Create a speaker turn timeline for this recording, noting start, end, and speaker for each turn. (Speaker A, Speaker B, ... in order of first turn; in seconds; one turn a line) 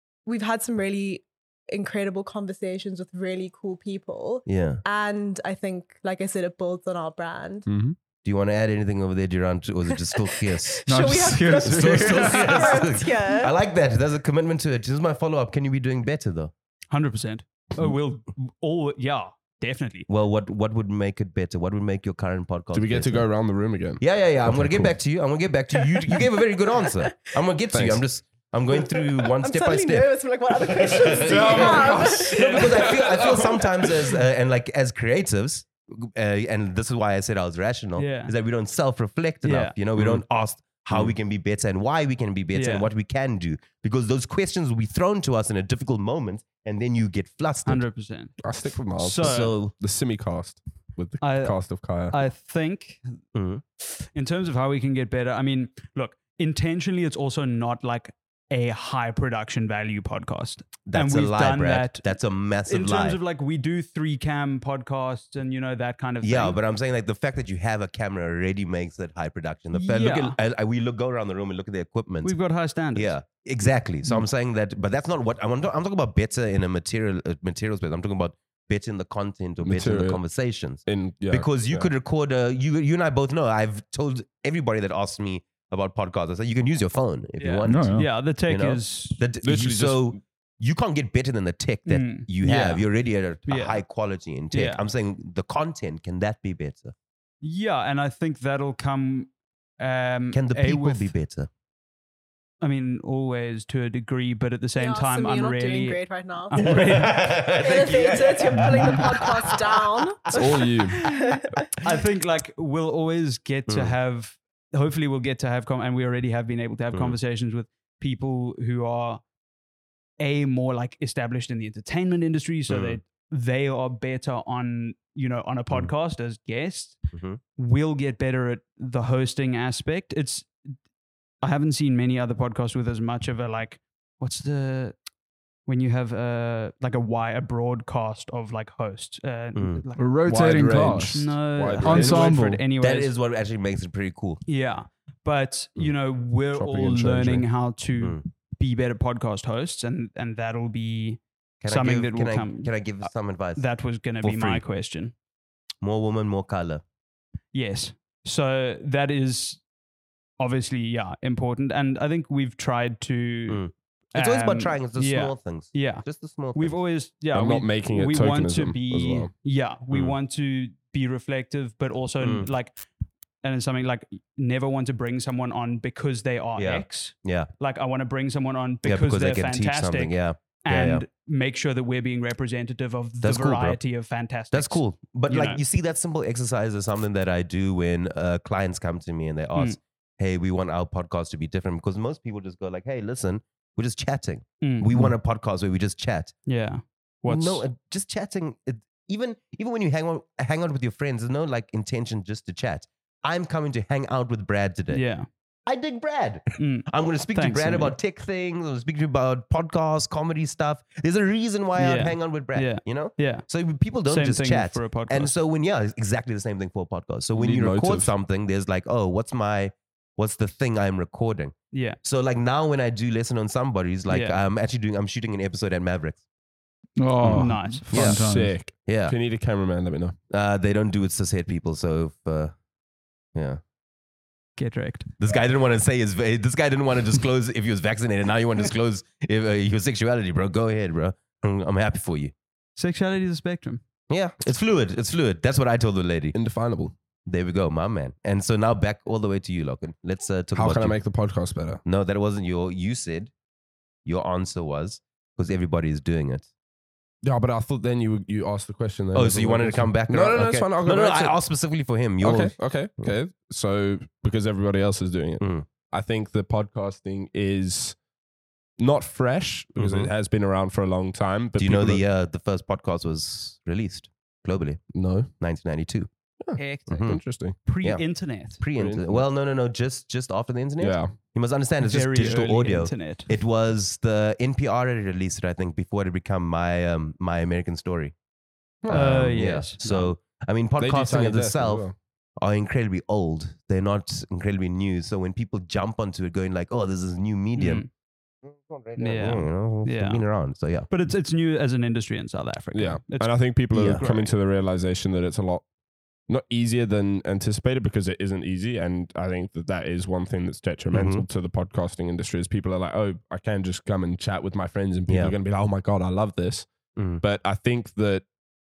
Speaker A: 0.2-7.7
Speaker B: 4.5-4.8
Speaker C: 7.7-8.0
Speaker B: 8.2-10.8
Speaker A: 10.1-13.6
Speaker D: 10.9-12.8
Speaker B: 11.6-16.5
Speaker E: 16.9-20.1
Speaker B: 20.1-23.3
Speaker C: 22.7-24.9
Speaker B: 24.0-30.1
Speaker A: 26.0-26.2
Speaker A: 27.0-27.3
Speaker C: 27.7-28.0
Speaker A: 28.7-33.0
Speaker B: 30.7-47.9
Speaker C: 31.1-34.2
Speaker E: 38.0-38.3
Speaker E: 39.4-39.8
Speaker C: 40.0-40.2
Speaker E: 42.5-42.9
Speaker E: 47.7-48.4
Speaker C: 48.4-52.2
Speaker E: 49.0-49.6
Speaker B: 49.2-49.7
Speaker E: 51.2-53.2
Speaker B: 53.3-53.6
Speaker E: 53.8-66.6
Speaker B: 60.9-63.2
Speaker B: 66.2-72.4
Speaker E: 69.7-70.4
Speaker E: 72.2-73.2
Speaker B: 72.9-96.9
Speaker C: 79.6-80.2
Speaker C: 80.8-81.9
Speaker E: 87.4-89.2
Speaker D: 87.7-88.1
Speaker C: 89.4-90.2
Speaker E: 91.9-92.8
Speaker E: 93.5-93.8
Speaker E: 94.5-94.8
Speaker E: 97.4-101.1
Speaker B: 100.3-101.5
Speaker E: 102.6-107.4
Speaker A: 104.8-106.6
Speaker B: 106.5-109.8
Speaker A: 107.6-111.7
Speaker C: 110.3-111.0
Speaker E: 111.8-119.2
Speaker B: 113.7-114.0
Speaker E: 120.2-127.0
Speaker B: 122.7-123.0
Speaker B: 127.1-127.4
Speaker E: 127.5-130.5
Speaker E: 131.4-135.0
Speaker E: 135.7-140.1
Speaker B: 139.6-139.8
Speaker D: 140.0-142.6
Speaker C: 140.3-142.3
Speaker E: 141.1-143.1
Speaker B: 142.8-144.4
Speaker E: 144.5-155.1
Speaker C: 146.6-147.4
Speaker B: 151.6-153.7
Speaker B: 154.2-154.6
Speaker B: 155.8-156.8
Speaker E: 157.5-159.6
Speaker E: 160.4-172.8
Speaker B: 163.5-166.8
Speaker C: 167.3-169.3
Speaker B: 172.2-172.5
Speaker E: 173.4-185.6
Speaker B: 176.6-177.5
Speaker B: 178.8-181.1
Speaker B: 183.2-183.8
Speaker B: 184.5-196.3
Speaker E: 194.6-194.9
Speaker E: 196.5-197.7
Speaker B: 197.3-205.0
Speaker E: 204.9-205.3
Speaker B: 205.7-226.2
Speaker E: 206.6-207.9
Speaker E: 211.8-213.5
Speaker E: 214.1-215.4
Speaker C: 217.3-218.1
Speaker E: 221.7-222.0
Speaker E: 224.1-224.4
Speaker D: 227.0-228.6
Speaker C: 227.3-230.2
Speaker E: 227.3-227.8
Speaker B: 227.9-228.2
Speaker B: 228.8-229.2
Speaker B: 230.3-232.6
Speaker B: 233.3-233.6
Speaker E: 234.6-235.1
Speaker B: 235.2-242.3
Speaker E: 242.8-243.8
Speaker B: 244.1-246.4
Speaker C: 246.3-246.9
Speaker B: 247.3-251.0
Speaker C: 250.6-251.8
Speaker B: 251.8-253.3
Speaker B: 254.1-256.5
Speaker C: 257.2-261.4
Speaker B: 259.1-263.1
Speaker C: 262.2-268.0
Speaker B: 265.4-265.7
Speaker C: 268.8-272.0
Speaker B: 269.8-270.1
Speaker B: 271.6-274.8
Speaker C: 274.9-275.3
Speaker B: 275.4-276.1
Speaker C: 276.4-277.6
Speaker E: 276.6-278.6
Speaker B: 276.9-277.2
Speaker B: 278.6-288.1
Speaker C: 278.8-279.2
Speaker C: 280.8-281.2
Speaker E: 281.8-283.3
Speaker B: 288.9-291.9
Speaker E: 288.9-290.1
Speaker C: 290.8-292.0
Speaker B: 292.4-297.9
Speaker E: 297.6-297.9
Speaker B: 298.4-300.9
Speaker E: 299.0-300.2
Speaker E: 300.9-304.3
Speaker C: 302.7-305.7
Speaker B: 303.7-304.1
Speaker C: 306.3-318.3
Speaker B: 310.9-311.2
Speaker B: 315.1-315.4
Speaker B: 316.9-317.2